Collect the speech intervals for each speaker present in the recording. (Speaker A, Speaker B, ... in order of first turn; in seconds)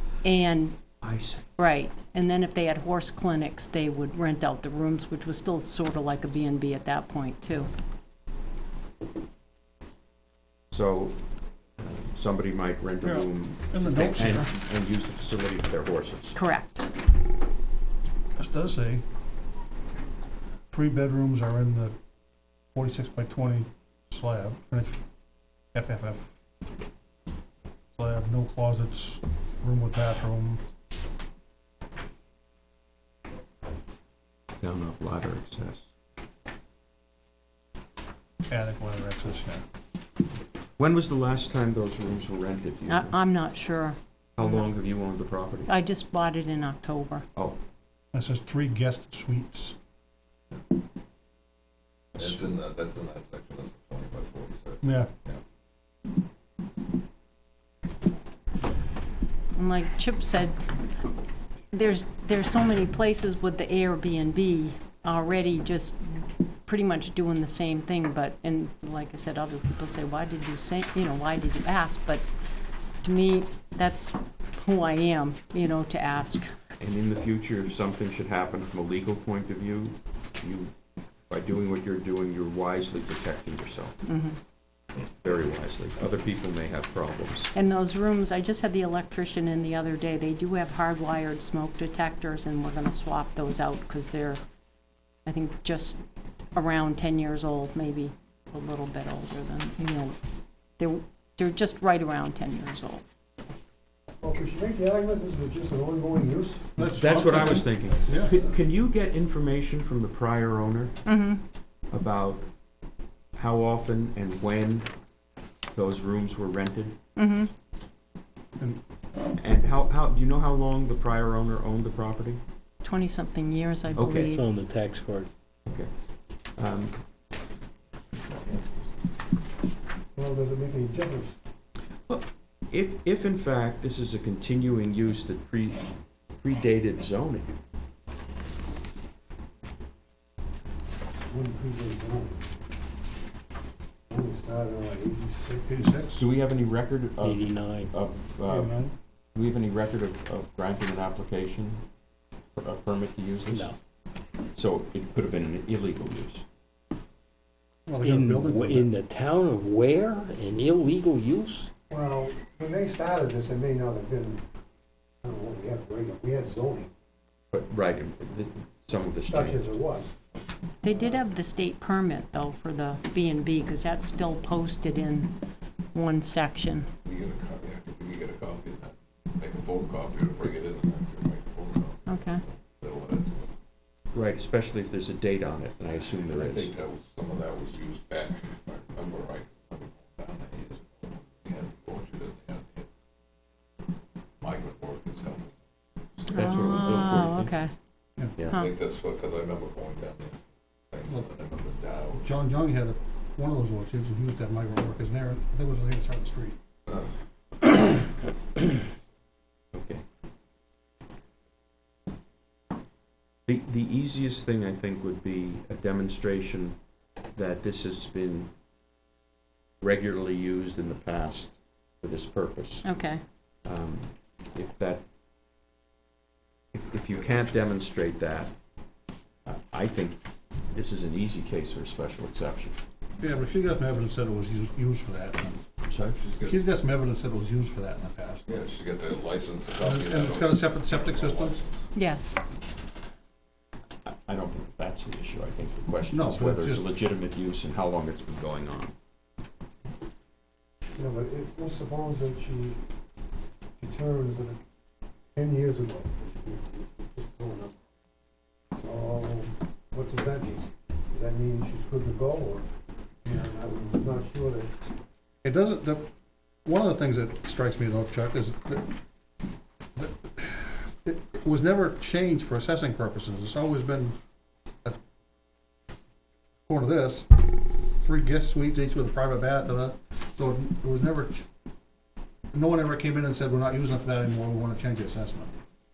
Speaker A: 0.2-0.8, 1.6-7.7, 16.3-16.9, 42.9-44.5, 45.7-47.3, 59.5-60.6, 61.7-72.3, 73.0-76.5, 84.0-84.4, 87.5-94.4, 95.3-96.0, 96.5-100.2, 100.8-103.0, 111.1-111.4, 117.2-117.5, 122.8-124.4, 170.8-175.3, 175.9-176.9, 182.1-182.4, 196.3-197.7, 222.8-223.2, 241.9-242.4
Speaker B: 1.0-1.5, 10.7-11.2, 11.8-16.4, 34.6-35.8, 40.8-43.1, 44.4-45.7, 52.1-52.5, 76.8-80.7, 81.3-83.9, 85.2-87.5, 106.8-111.0, 111.9-112.5, 113.3-114.9, 115.7-117.0, 119.4-122.4, 124.0-124.4, 126.6-127.0, 132.1-137.5, 146.2-148.7, 149.3-151.8, 152.6-153.8, 154.5-156.4, 167.5-169.6, 184.1-186.7, 196.3-197.5, 209.7-210.0, 213.5-216.8, 217.3-218.5, 219.8-222.8, 223.7-225.0, 226.7-228.5, 229.5-230.2, 230.7-232.8, 235.9-236.2, 244.1-248.9
Speaker C: 13.0-14.5, 18.4-19.0, 20.7-21.9, 22.7-25.0, 25.7-26.3, 28.0-30.6, 38.5-39.6, 48.1-49.8, 54.8-55.1, 106.8-108.4, 145.7-146.3, 148.5-148.9, 157.9-158.9, 202.2-206.6, 233.2-235.6, 236.4-238.5, 239.8-241.6, 246.1-246.8, 265.4-266.1, 266.6-268.9, 270.0-274.2, 276.7-277.3, 277.8-281.5, 282.5-285.6
Speaker D: 52.1-54.8, 177.1-183.5, 186.2-192.9, 194.4-195.6, 196.2-197.1, 198.5-202.3, 207.7-208.0, 236.1-236.6, 238.5-241.9
Speaker E: 104.2-106.7, 130.2-131.4, 141.3-142.5, 144.1-145.8, 161.9-164.4, 165.2-166.9, 169.2-170.1, 170.9-171.2, 250.9-252.8, 253.8-254.6, 255.3-257.8, 258.8-262.7, 263.3-264.7
Speaker F: 124.3-125.3, 147.2-147.9, 153.5-153.8, 158.0-161.7